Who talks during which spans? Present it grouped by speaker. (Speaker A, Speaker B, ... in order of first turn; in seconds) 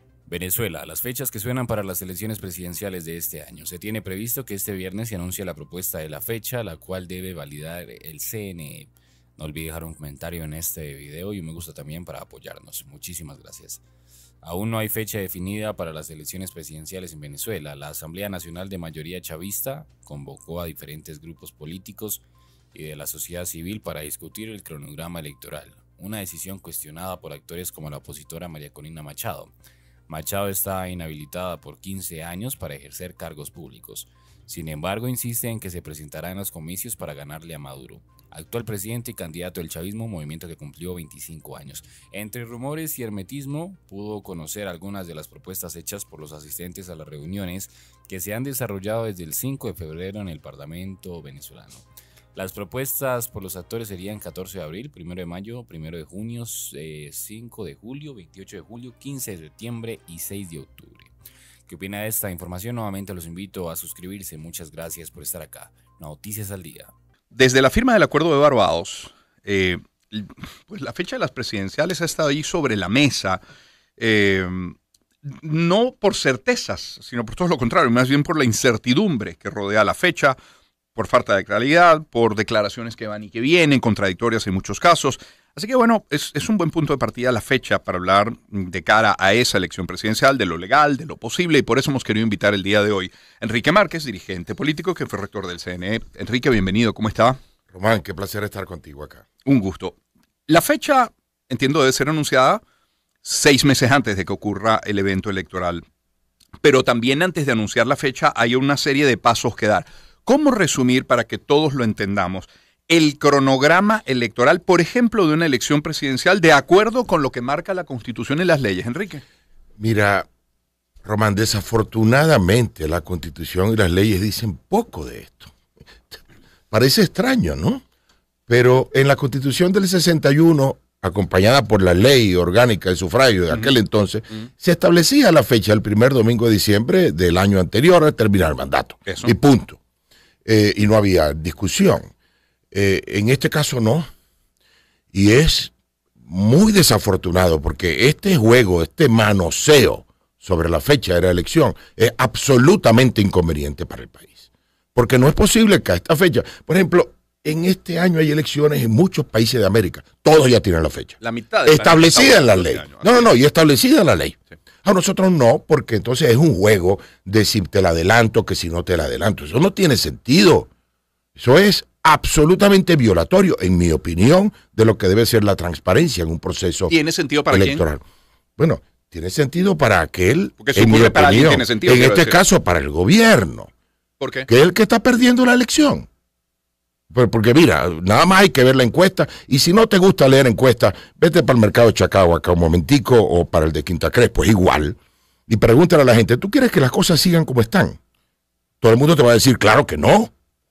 Speaker A: 0.3-13.8, 14.4-29.5, 30.1-61.1, 61.7-66.9
Speaker B: 67.3-73.4, 74.0-74.8, 75.3-80.4, 81.0-97.4, 99.5-100.0, 100.5-102.6, 103.2-105.8, 106.6-119.2, 139.1-139.3, 161.2-163.3, 176.9-177.8, 180.6-182.3, 184.2-184.5
Speaker C: 97.7-99.2, 119.8-120.3, 121.0-125.5, 126.1-127.8, 128.5-139.8, 140.4-142.1, 142.7-144.1, 145.1-145.7, 146.2-170.7, 171.3-176.9, 177.5-178.0, 178.6-183.7, 184.5-186.1, 187.1-195.0, 195.5-198.0, 198.8-200.3